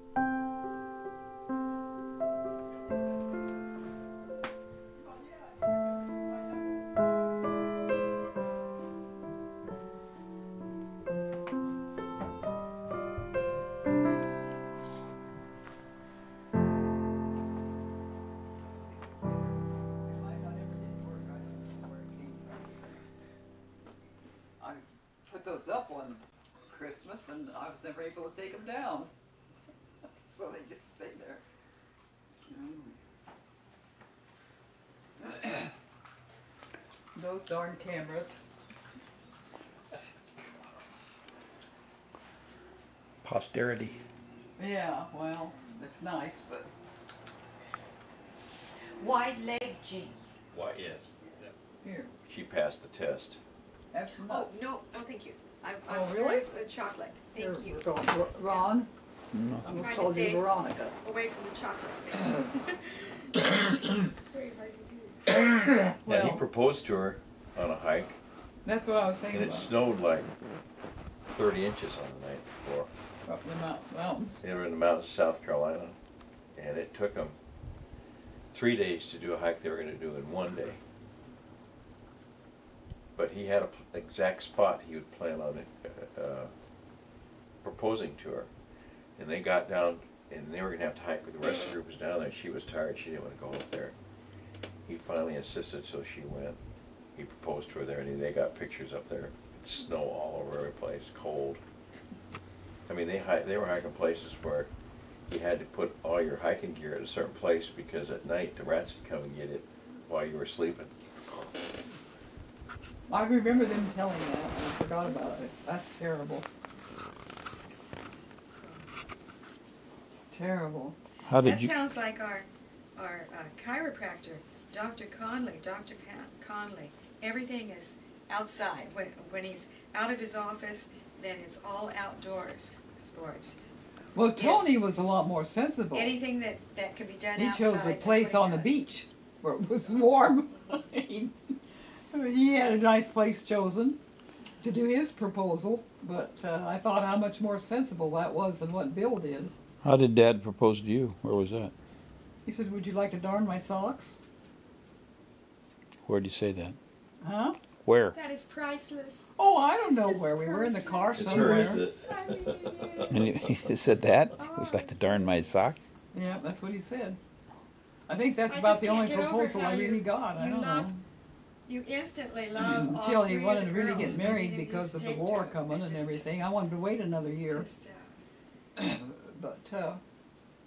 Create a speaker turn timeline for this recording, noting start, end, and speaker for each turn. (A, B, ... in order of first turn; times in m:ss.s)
0:05.0-0:06.7 A
0:20.0-0:23.0 A
0:24.6-0:29.1 A
0:30.2-0:31.4 A
0:32.4-0:32.9 A
0:35.2-0:35.7 A
0:37.1-0:38.4 A
0:43.2-0:44.0 B
0:44.6-0:46.7 A
0:49.0-0:50.4 C
0:50.5-0:51.1 D
0:51.8-0:52.1 A
0:52.3-0:53.4 D
0:53.9-0:54.6 A
0:54.2-0:58.8 C
0:55.9-0:56.4 A
0:57.4-0:58.9 A
0:59.3-0:59.7 B
0:59.6-1:01.0 A
0:59.8-1:00.5 C
1:01.0-1:03.4 C
1:04.3-1:05.3 C
1:05.3-1:08.2 D
1:05.9-1:06.4 A
1:08.6-1:09.7 A
1:09.3-1:10.3 D
1:11.3-1:12.9 D
1:13.2-1:14.4 A
1:14.4-1:16.0 D
1:16.6-1:17.4 D
1:18.5-1:20.8 D
1:23.2-1:26.5 D
1:27.6-1:28.5 D
1:29.2-1:33.9 D
1:34.9-1:36.6 D
1:37.1-1:41.6 D
1:42.9-1:44.7 D
1:45.3-1:50.9 D
1:53.1-1:56.4 A
1:58.5-1:58.8 C
2:00.3-2:01.0 A
2:01.3-2:01.7 B
2:01.4-2:13.6 C
2:14.1-2:16.2 A
2:14.4-2:14.7 C
2:15.9-2:18.7 C
2:17.4-2:21.3 A
2:22.1-2:24.0 A
2:24.6-2:29.5 A
2:29.8-2:31.7 B
2:32.4-2:34.2 A
2:36.0-2:36.8 B
2:37.2-2:37.6 A
2:37.8-2:38.2 B
2:38.1-2:43.4 C
2:39.4-2:41.8 A
2:41.2-2:43.3 D
2:43.1-2:45.8 B
2:44.3-2:45.4 C
2:46.1-2:47.2 A
2:48.1-2:51.0 A
2:48.5-2:50.9 C
2:51.7-2:56.3 C
2:52.6-2:57.6 A
2:57.5-2:58.2 C
2:58.8-3:00.0 A